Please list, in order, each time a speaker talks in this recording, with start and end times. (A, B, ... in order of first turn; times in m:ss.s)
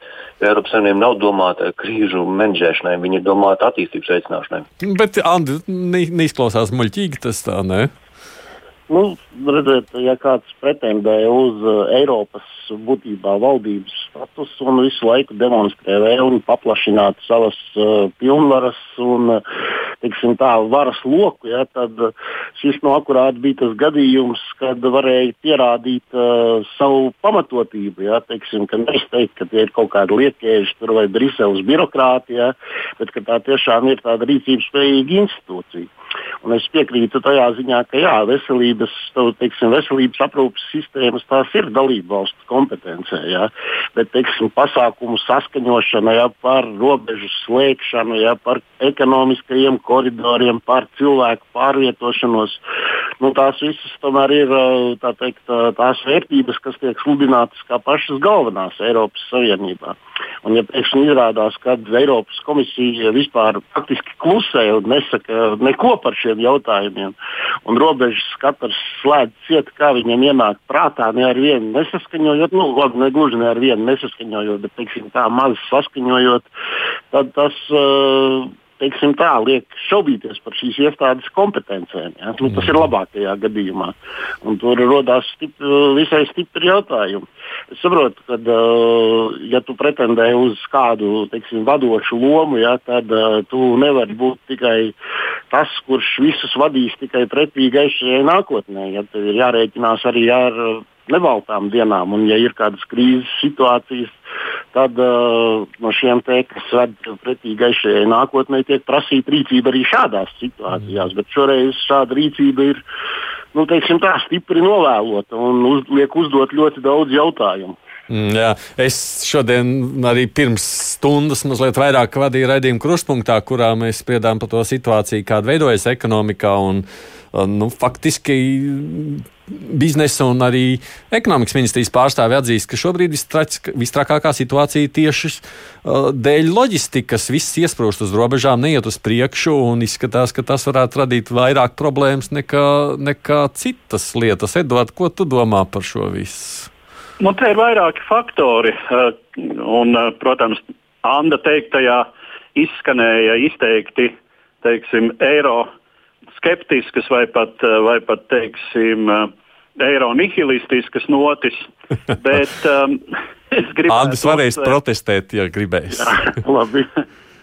0:00.4-0:04.7 A
0:04.8-0:07.9 B
0:08.9-0:19.4 C
0:20.0-0:35.9 C
0:36.4-0:52.6 C
0:53.2-1:16.5 C
1:17.1-1:34.9 C
1:35.5-1:44.2 C
1:44.7-1:52.8 C
1:53.5-1:57.8 C
1:58.1-2:26.7 B
2:27.2-2:35.7 D
2:36.4-2:44.8 D
2:43.9-2:46.2 B
2:45.9-2:46.9 C